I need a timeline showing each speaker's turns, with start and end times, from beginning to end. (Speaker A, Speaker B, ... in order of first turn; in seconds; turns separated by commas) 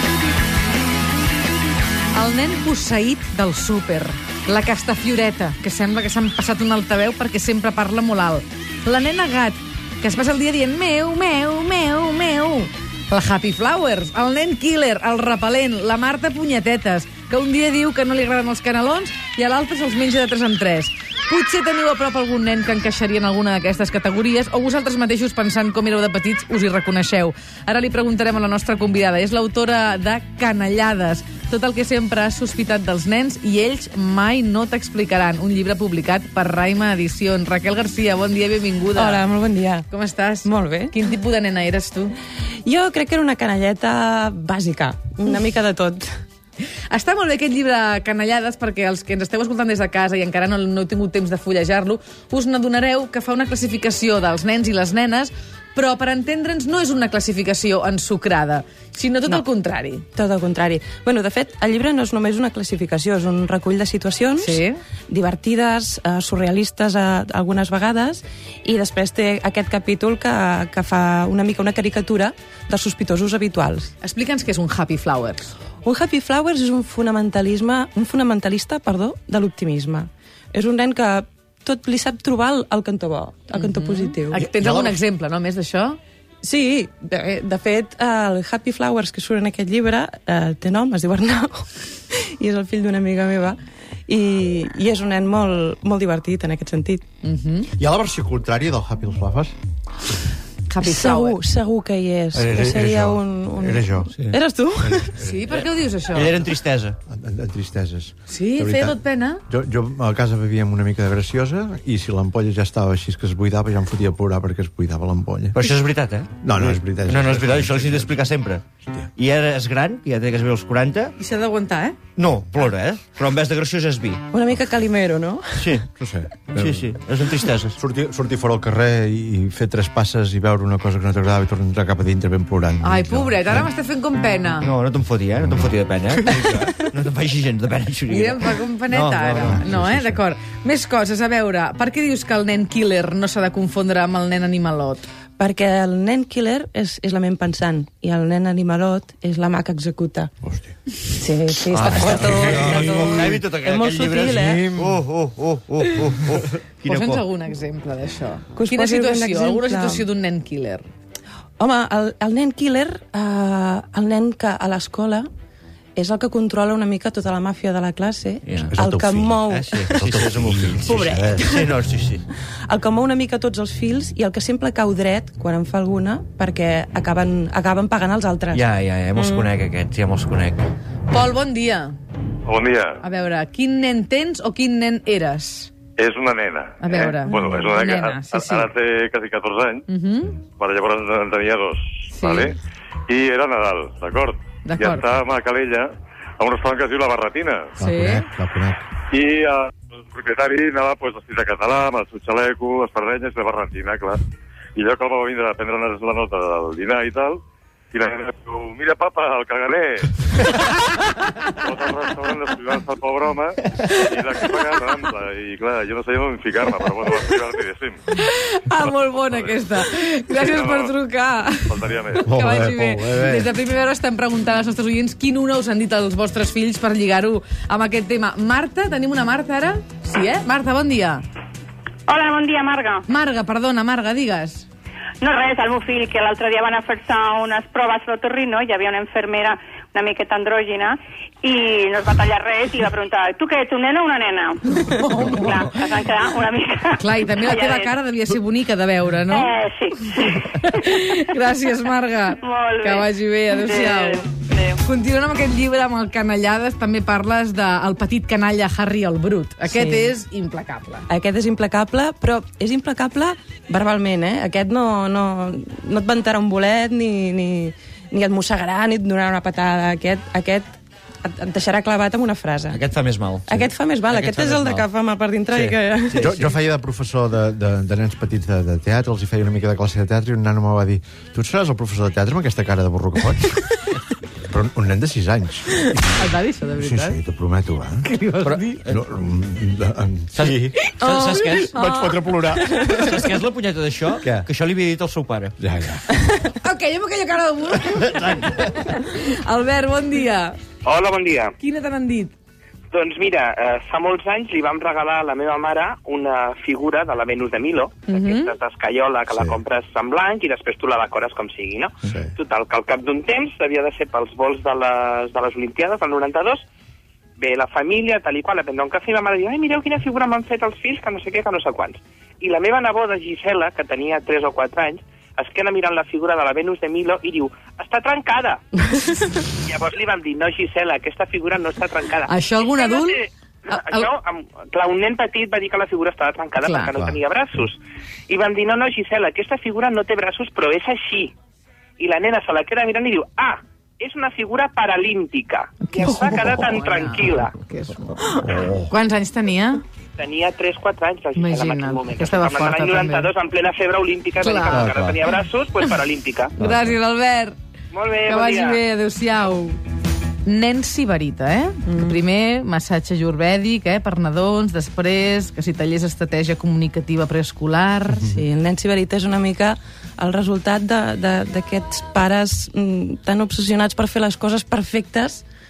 Speaker A: 2.1-39.3, Speaker B: 38.9-39.9, Speaker A: 39.9-42.1, Speaker B: 40.4-41.0, Speaker B: 42.6-46.1, Speaker A: 46.9-60.1, Speaker B: 60.1-73.9, Speaker A: 64.4-64.8, Speaker A: 74.0-75.5, Speaker B: 75.8-84.4, Speaker A: 83.5-86.0, Speaker C: 84.4-85.0, Speaker B: 86.4-97.0, Speaker A: 97.2-97.7, Speaker C: 97.8-99.5, Speaker A: 100.7-101.4, Speaker B: 100.8-105.1, Speaker C: 102.3-104.1, Speaker C: 104.8-105.4, Speaker A: 105.2-106.3, Speaker D: 105.5-107.0, Speaker C: 107.0-109.0, Speaker A: 108.3-109.4, Speaker C: 109.5-115.6, Speaker D: 115.5-118.6, Speaker C: 116.4-118.2, Speaker D: 119.2-121.1, Speaker A: 121.2-122.0, Speaker D: 122.2-124.2, Speaker B: 124.3-125.8, Speaker D: 125.6-125.9, Speaker C: 126.0-126.9, Speaker D: 126.5-127.8, Speaker C: 127.8-133.7, Speaker A: 132.8-134.7, Speaker D: 134.6-139.7, Speaker A: 138.1-145.1, Speaker C: 139.6-140.2, Speaker B: 145.4-150.3, Speaker B: 151.1-154.9, Speaker D: 151.7-157.2, Speaker C: 154.6-155.0, Speaker A: 156.8-160.9, Speaker B: 158.6-160.1, Speaker B: 161.6-165.3, Speaker B: 165.9-170.2, Speaker D: 168.4-172.2, Speaker C: 168.7-169.3, Speaker C: 170.0-171.4, Speaker B: 170.8-171.7, Speaker B: 172.7-179.5, Speaker D: 178.5-180.7, Speaker A: 181.1-181.9, Speaker E: 182.4-183.0, Speaker A: 183.0-185.7, Speaker E: 186.0-189.8, Speaker A: 186.8-188.7, Speaker A: 189.9-190.4, Speaker E: 190.6-192.5, Speaker A: 192.1-192.5, Speaker E: 193.1-195.9, Speaker A: 194.7-195.0, Speaker E: 196.4-197.8, Speaker A: 197.8-198.3, Speaker C: 197.8-198.8, Speaker E: 199.1-204.2, Speaker E: 204.8-207.4, Speaker E: 207.9-210.1, Speaker E: 211.6-218.0, Speaker A: 218.1-231.2, Speaker E: 218.8-219.6, Speaker E: 220.3-220.9, Speaker E: 221.6-222.8, Speaker C: 222.4-223.4, Speaker F: 232.1-233.0, Speaker A: 233.1-234.7, Speaker F: 235.2-247.9, Speaker A: 244.9-245.6, Speaker A: 247.0-249.5, Speaker F: 249.3-250.1, Speaker A: 250.3-254.3, Speaker F: 252.4-253.1, Speaker F: 253.6-254.7, Speaker A: 254.8-261.1, Speaker B: 259.6-260.1, Speaker B: 261.1-270.7, Speaker B: 271.2-272.8, Speaker D: 272.7-274.9, Speaker B: 273.5-276.4, Speaker D: 275.5-276.5, Speaker C: 276.2-283.7, Speaker C: 284.5-286.2, Speaker A: 286.2-287.2, Speaker C: 286.8-288.0, Speaker A: 288.0-288.7, Speaker C: 288.9-290.8, Speaker D: 290.3-291.8, Speaker B: 291.0-291.7, Speaker A: 291.0-292.3, Speaker C: 291.6-293.0, Speaker B: 292.7-293.1, Speaker D: 292.9-295.5, Speaker C: 294.2-294.5, Speaker C: 295.6-296.0, Speaker A: 296.5-300.6, Speaker D: 298.1-298.5, Speaker G: 300.8-301.5, Speaker A: 301.6-302.3, Speaker G: 302.9-316.6, Speaker A: 308.1-308.5, Speaker G: 317.4-328.6, Speaker B: 328.9-329.2, Speaker G: 329.6-341.3, Speaker A: 332.3-334.1, Speaker A: 336.6-337.0, Speaker G: 342.0-347.5, Speaker A: 345.9-349.8, Speaker G: 350.2-356.5, Speaker A: 351.3-353.3, Speaker A: 354.4-354.9, Speaker D: 354.9-355.2, Speaker A: 356.5-357.5, Speaker G: 357.9-358.8, Speaker A: 358.2-359.8, Speaker A: 360.4-368.3, Speaker B: 368.2-375.4